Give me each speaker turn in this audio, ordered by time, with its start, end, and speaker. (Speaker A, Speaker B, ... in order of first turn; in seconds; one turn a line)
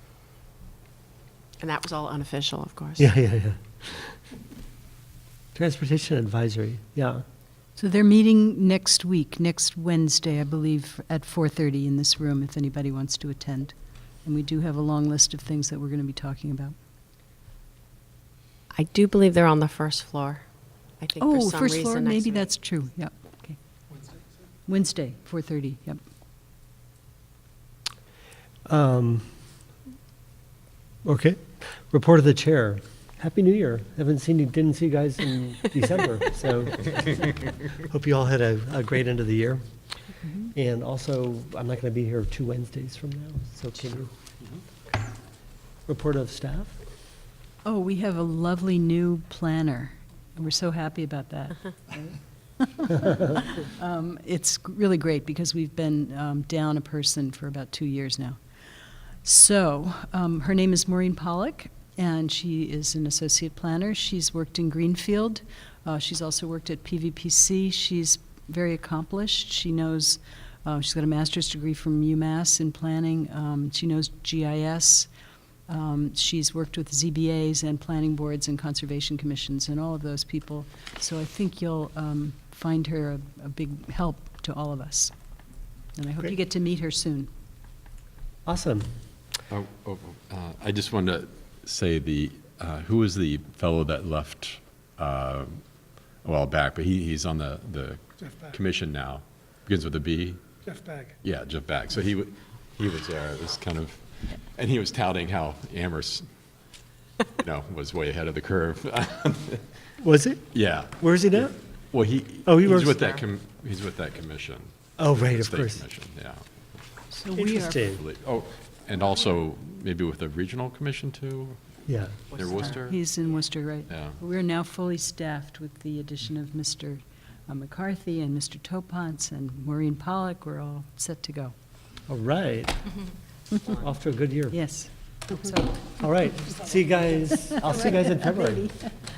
Speaker A: 1.6-3.0
Speaker B: 3.0-4.1
Speaker B: 5.5-7.2
Speaker C: 7.8-16.8
Speaker A: 18.7-20.5
Speaker A: 21.0-22.5
Speaker C: 21.2-23.6
Speaker C: 24.7-26.0
Speaker B: 28.7-29.2
Speaker B: 31.0-39.6
Speaker C: 40.2-40.5
Speaker B: 40.5-44.1
Speaker B: 45.9-46.8
Speaker C: 47.6-58.4
Speaker C: 59.2-75.1
Speaker C: 75.7-85.1
Speaker C: 86.0-87.3
Speaker B: 88.5-88.9
Speaker D: 89.5-95.6
Speaker D: 96.2-100.4
Speaker D: 101.2-106.3
Speaker D: 107.3-109.6
Speaker B: 110.0-111.5
Speaker D: 110.5-116.4
Speaker B: 112.5-113.0
Speaker B: 115.0-115.8
Speaker C: 117.1-117.9
Speaker B: 117.3-118.0
Speaker D: 117.9-121.6
Speaker B: 121.9-122.2
Speaker D: 122.3-123.0
Speaker A: 122.3-122.8
Speaker C: 122.7-131.5
Speaker D: 123.9-124.2
Speaker B: 132.1-132.9
Speaker B: 133.8-134.6
Speaker C: 134.5-136.6
Speaker B: 136.0-138.8
Speaker C: 137.1-138.9